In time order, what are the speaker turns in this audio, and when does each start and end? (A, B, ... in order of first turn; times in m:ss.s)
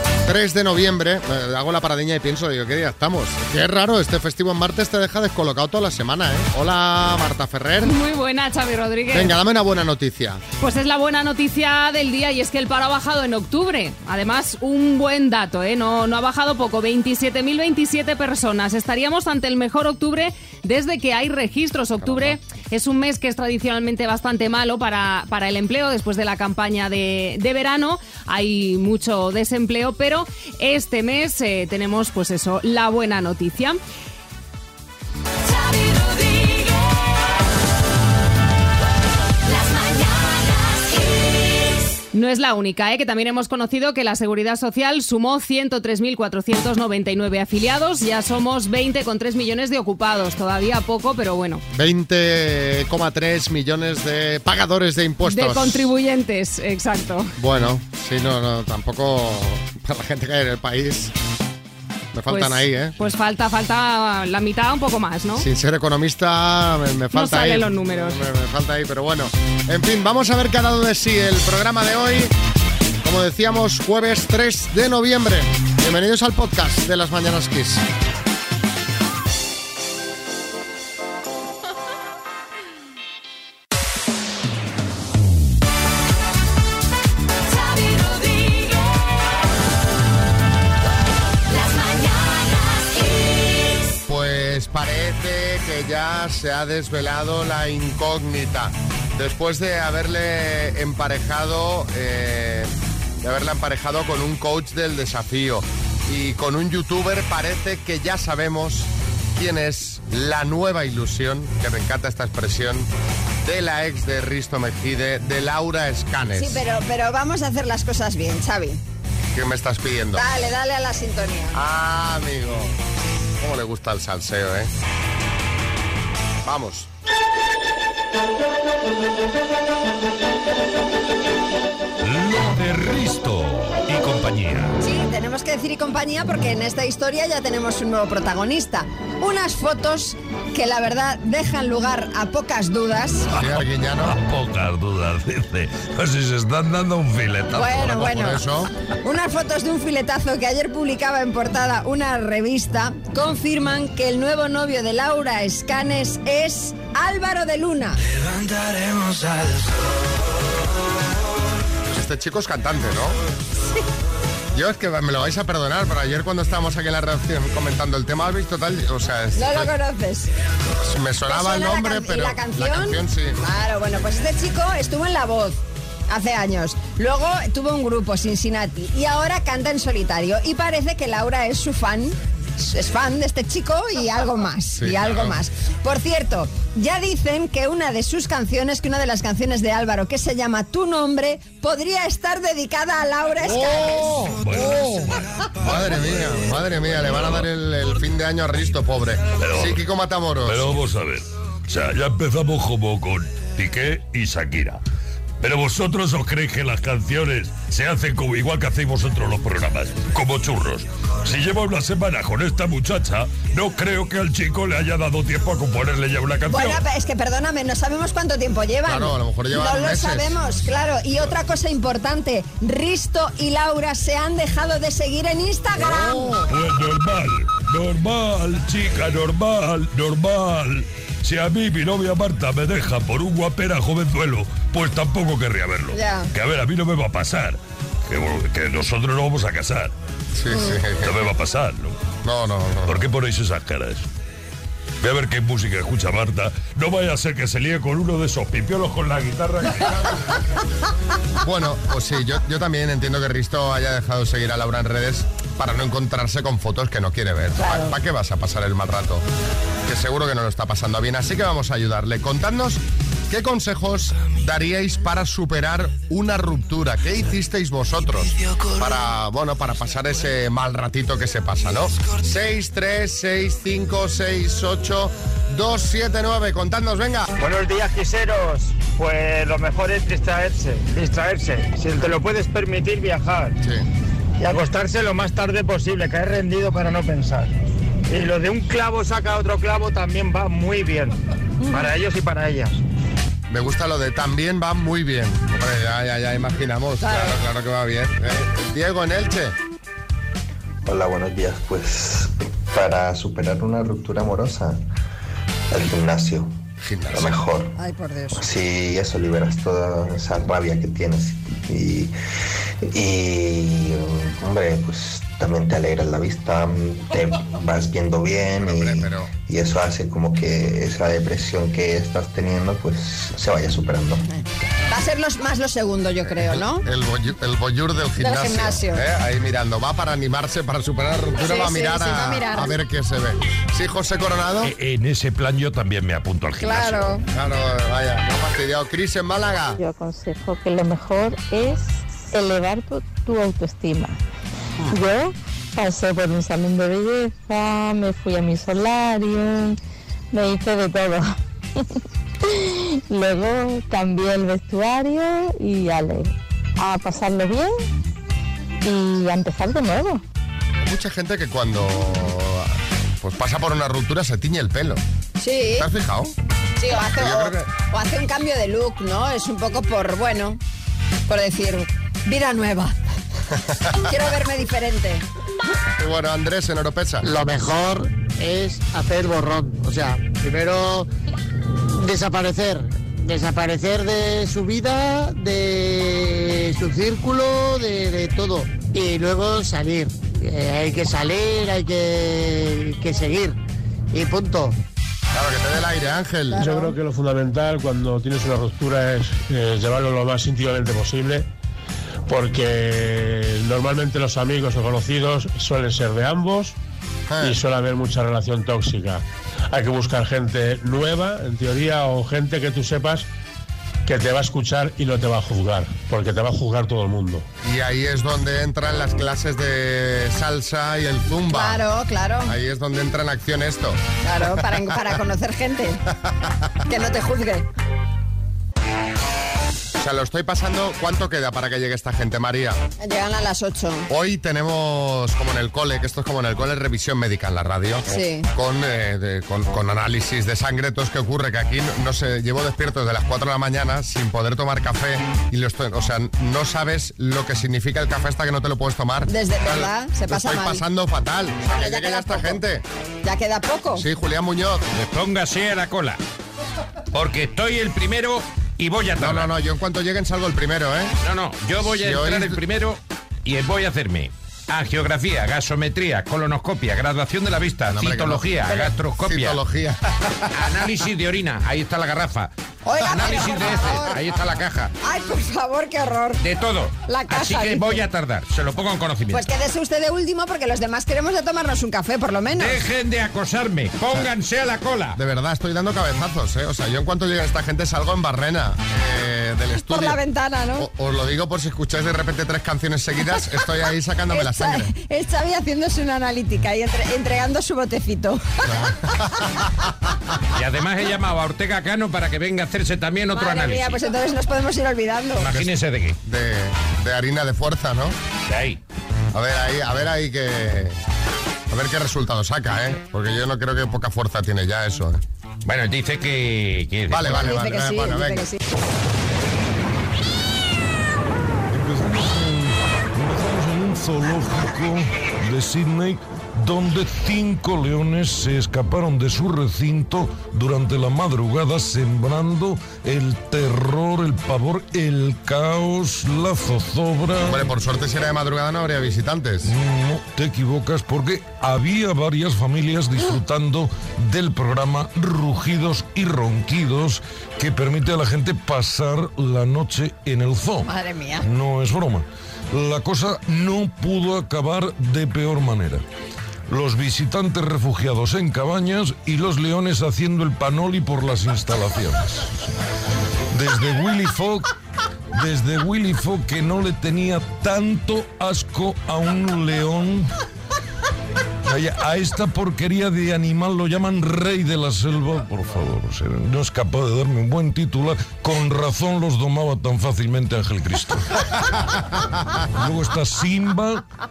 0:00.2-0:08.0 A
0:07.8-0:09.3 B
0:09.1-0:10.4 A
0:10.6-0:33.8 B
0:22.0-0:22.4 A
0:42.1-0:51.6 B
0:51.7-0:55.9 A
0:55.2-0:57.3 B
0:57.4-1:01.1 A
1:02.1-1:02.9 A
1:02.3-1:05.4 B
1:05.3-1:12.3 A
1:07.1-1:08.2 B
1:13.0-1:17.8 A
1:34.0-1:42.7 A
1:43.2-1:52.9 A
1:53.4-1:56.6 A
1:56.3-1:58.8 C
1:59.3-2:00.2 A
2:00.1-2:01.6 C
2:01.5-2:02.7 A
2:03.4-2:04.7 A
2:06.4-2:06.9 A
2:12.0-2:14.7 D
2:13.9-2:14.2 E
2:14.8-2:23.3 C
2:23.3-2:24.2 A
2:23.4-2:28.1 D
2:27.5-2:28.4 C
2:27.7-2:28.7 A
2:29.0-2:38.0 C
2:41.9-2:43.2 A
2:44.5-2:49.7 A
2:49.4-2:50.3 C
2:50.8-2:53.4 A
2:51.3-3:14.2 C
3:04.8-3:05.4 A
3:13.4-3:15.0 A
3:13.6-3:17.4 D
3:15.6-3:20.7 A
3:19.4-3:19.8 D
3:20.4-3:24.8 D
3:25.4-3:36.8 D
3:36.5-3:46.4 C
3:38.8-3:40.5 A
3:46.0-3:59.9 D
3:46.1-3:46.4 A
3:55.9-3:56.3 C
4:00.3-4:01.2 A
4:00.5-4:00.8 C
4:01.0-4:02.0 D
4:02.2-4:03.1 A
4:02.8-4:04.1 D
4:05.0-4:10.3 D
4:11.4-4:19.2 A
4:17.6-4:17.9 C
4:19.9-4:37.3 A
4:37.4-4:43.5 F
4:44.4-4:47.5 F
4:48.1-4:51.2 F
4:51.7-4:52.8 F
4:53.5-4:59.5 A
4:57.0-4:57.4 C
5:00.8-5:04.8 G
5:05.7-5:06.5 G
5:06.8-5:07.4 A
5:07.1-5:07.7 G
5:07.8-5:08.4 C
5:08.3-5:12.1 G
5:12.8-5:24.2 G
5:18.6-5:19.3 A
5:24.3-5:26.8 C
5:26.2-5:34.7 A
5:28.2-5:29.0 C
5:31.4-5:32.7 C
5:34.8-5:37.2 D
5:36.6-5:37.2 C
5:37.3-5:39.8 A
5:39.8-5:44.2 H
5:44.8-5:49.8 H
5:50.3-5:51.3 H
5:52.6-5:57.7 H
5:58.8-6:00.2 H
6:00.8-6:05.0 A
6:05.4-6:05.9 C
6:05.8-6:06.3 A
6:06.8-6:10.6 C
6:07.1-6:07.6 A
6:11.3-6:12.9 C
6:13.6-6:14.0 A
6:14.1-6:15.2 C
6:16.0-6:17.3 A
6:17.2-6:21.1 F
6:22.0-6:33.6 F
6:34.1-6:34.8 F
6:35.3-6:36.7 A
6:36.5-6:41.5 I
6:36.6-6:36.8 C
6:42.3-6:46.8 I
6:47.3-6:47.6 A
6:47.4-6:53.3 I
6:54.0-6:57.4 I
6:57.6-7:01.8 A
7:01.5-7:02.5 C
7:02.4-7:05.0 A
7:04.2-7:06.0 C
7:06.1-7:06.7 A
7:06.9-7:07.7 C
7:10.0-7:12.8 A
7:13.0-7:14.1 C
7:14.1-7:32.8 A
7:18.1-7:18.5 C
7:29.3-7:30.8 C
7:31.7-7:32.6 C
7:33.2-7:34.0 C
7:33.9-7:34.8 A
7:34.9-7:36.2 E
7:37.1-7:39.5 E
7:39.2-7:41.1 A
7:41.2-7:49.6 E
7:41.8-7:42.6 A
7:47.9-7:50.5 A
7:50.5-7:52.5 E
7:52.8-7:54.1 C
7:53.0-7:54.3 A
7:53.1-7:54.9 E
7:55.0-7:56.4 C
7:56.4-7:59.4 E
7:57.1-7:58.0 C
7:59.3-8:02.8 C
8:02.6-8:05.2 E
8:05.2-8:10.2 A
8:09.8-8:10.9 C
8:10.8-8:14.9 A
8:14.3-8:19.0 C
8:18.7-8:19.9 A
8:20.5-8:24.0 E
8:23.3-8:25.5 C
8:25.4-8:26.2 E
8:26.2-8:28.2 A
8:28.5-8:28.8 E
8:29.3-8:31.0 A
8:31.7-8:35.2 A
8:35.6-8:37.5 E
8:37.1-8:38.4 A
8:37.4-8:38.6 C
8:41.7-8:57.7 D
8:57.4-8:59.7 A
8:59.6-9:10.9 D
9:10.8-9:11.4 C
9:11.4-9:16.0 D
9:16.7-9:22.5 D
9:23.5-9:24.7 D
9:25.3-9:30.3 D
9:31.6-9:41.4 D
9:42.8-9:44.0 D